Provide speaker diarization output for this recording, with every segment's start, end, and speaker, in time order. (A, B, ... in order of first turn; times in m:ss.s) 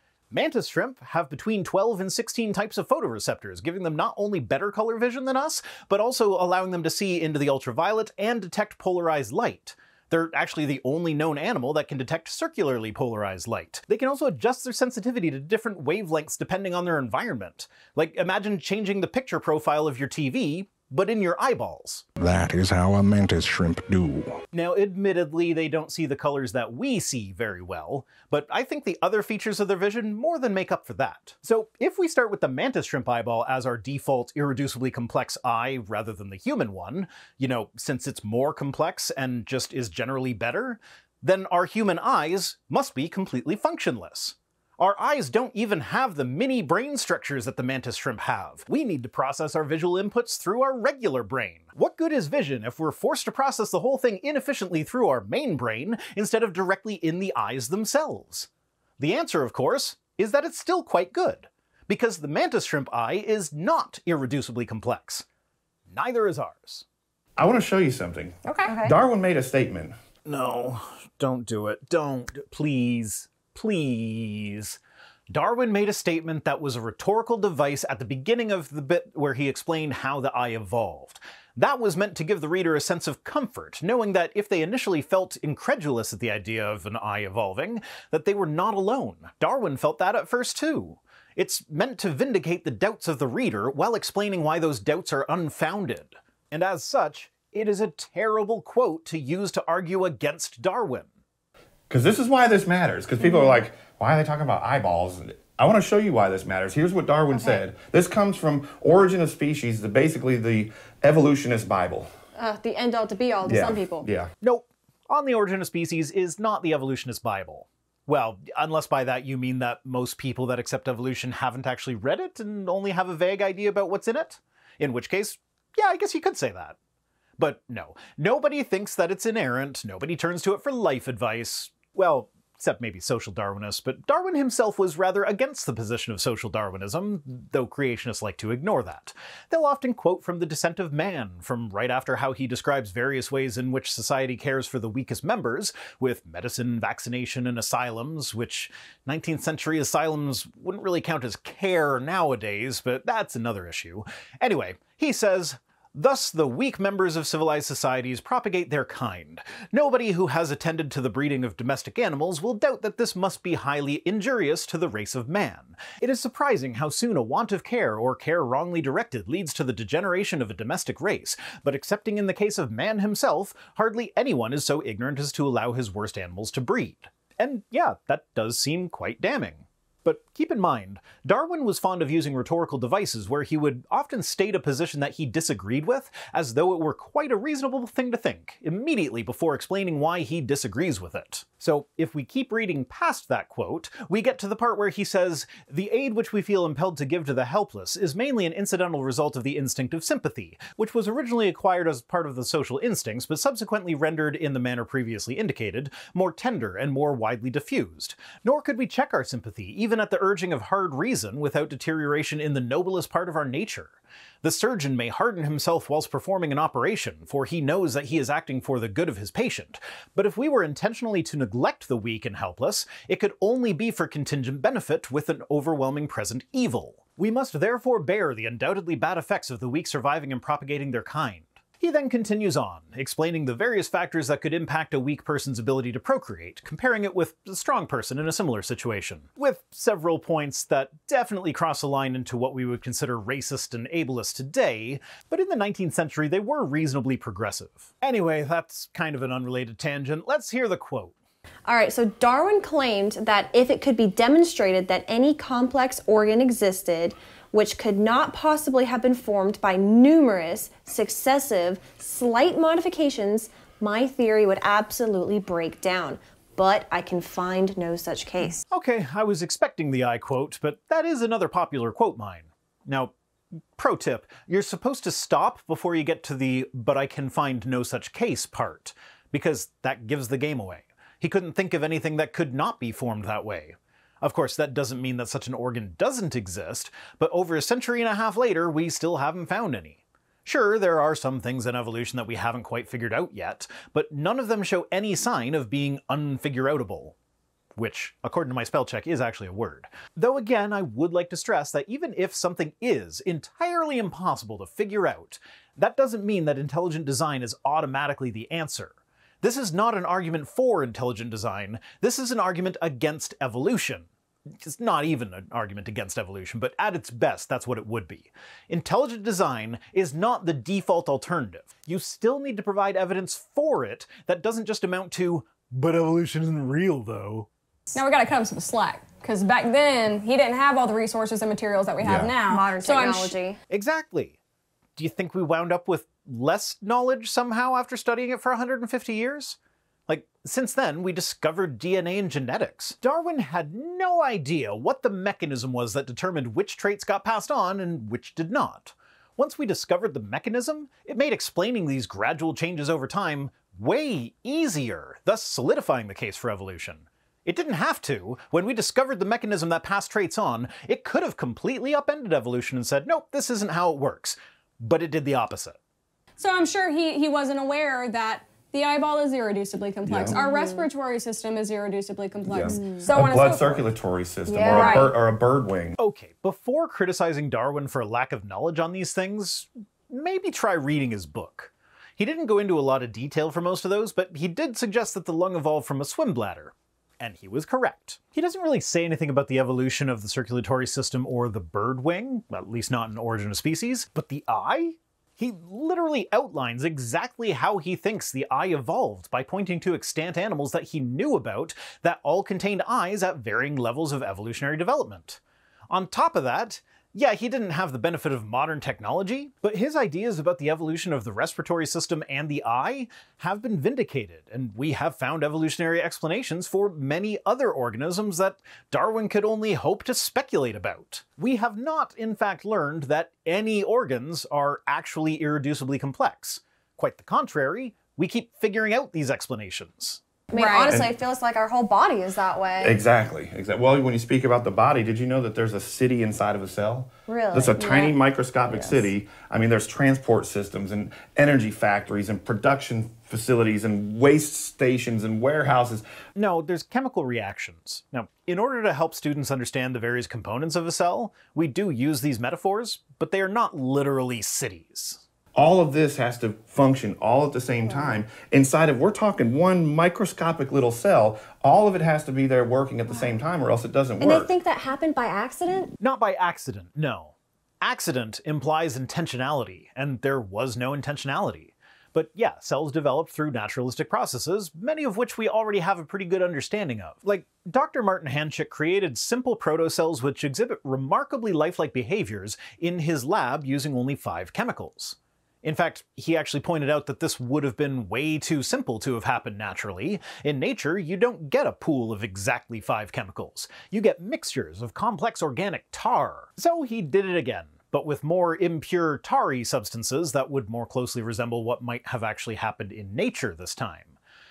0:00.3-0:22.0 A
0:22.2-0:24.4 B
0:24.5-0:58.5 A
0:59.0-1:05.2 A
1:05.9-1:06.8 A
1:07.4-1:09.9 C
1:08.6-1:09.0 D
1:10.2-1:14.8 A
1:15.3-1:41.1 A
1:41.9-1:52.1 C
1:52.4-1:54.1 D
1:53.4-1:54.3 C
1:54.4-2:06.8 A
2:07.4-4:11.1 A
4:11.7-4:28.6 D
4:28.7-4:33.1 A
4:33.8-4:57.2 A
4:57.8-5:14.1 A
5:14.6-5:27.5 A
5:27.9-5:33.4 E
5:32.0-5:32.3 C
5:32.5-5:33.6 D
5:33.7-5:34.4 A
5:35.0-6:05.8 A
6:06.4-6:13.9 E
6:10.0-6:10.4 C
6:10.3-6:10.9 D
6:12.5-6:16.0 C
6:12.7-6:13.1 D
6:14.5-6:15.1 D
6:14.6-6:15.1 E
6:16.0-7:10.2 A
7:10.5-7:13.0 D
7:10.5-7:10.9 E
7:10.8-7:11.1 C
7:12.8-7:26.0 C
7:17.3-7:18.2 D
7:18.7-7:19.0 D
7:26.4-7:35.2 A
7:35.5-7:44.5 C
7:37.8-7:38.2 D
7:44.2-7:45.9 D
7:46.0-8:24.2 A